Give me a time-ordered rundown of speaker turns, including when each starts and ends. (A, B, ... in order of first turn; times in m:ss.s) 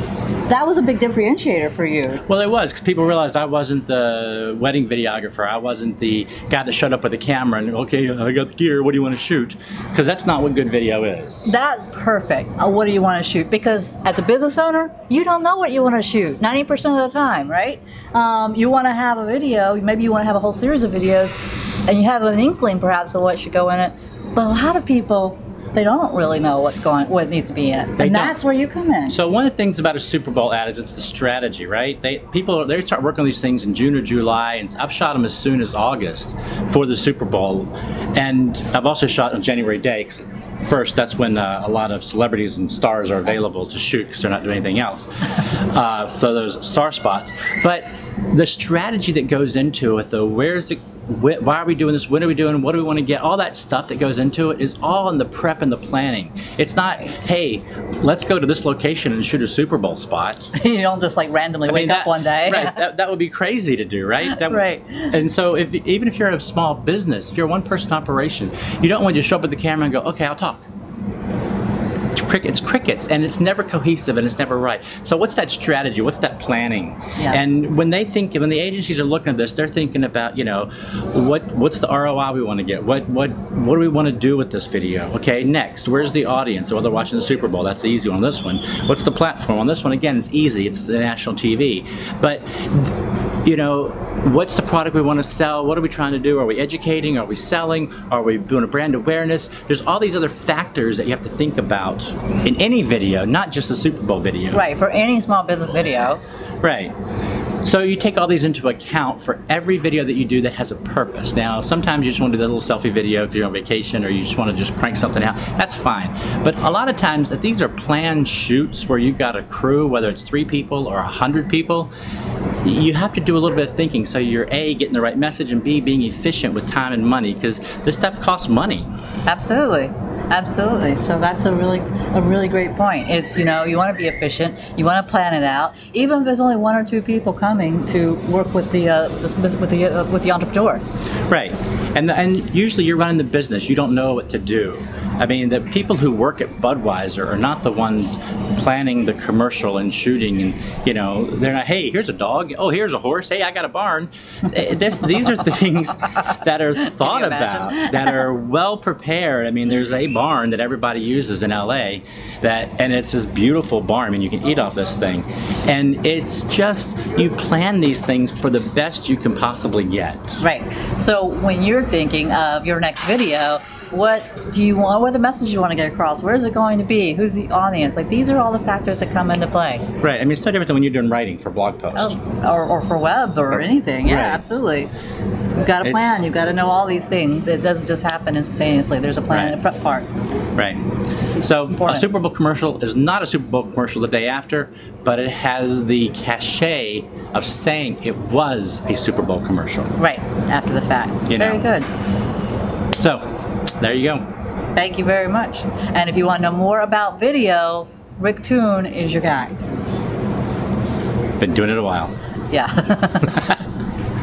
0:00.5-0:02.2 A
0:02.2-0:11.5 B
0:11.4-0:29.2 A
0:28.0-0:28.4 B
0:29.1-1:00.5 B
1:00.5-1:02.8 A
1:01.7-1:10.6 B
1:04.2-1:05.2 A
1:12.1-1:44.6 B
1:44.5-1:46.2 A
1:46.6-1:46.9 B
1:47.6-2:01.9 B
2:02.6-2:08.9 B
2:09.3-2:20.8 A
2:21.3-2:50.4 B
2:36.8-2:38.2 A
2:50.4-2:59.9 A
3:00.0-3:02.2 B
3:02.0-3:04.9 A
3:03.5-3:04.4 B
3:05.6-3:10.1 A
3:05.8-3:06.2 B
3:09.3-3:09.6 B
3:11.3-3:12.1 A
3:11.4-3:19.9 B
3:20.0-3:21.9 A
3:21.3-3:21.7 B
3:23.0-3:23.2 B
3:23.8-3:24.2 B
3:24.8-3:29.6 A
3:31.4-3:32.1 B
3:32.5-3:33.5 A
3:33.3-3:33.5 B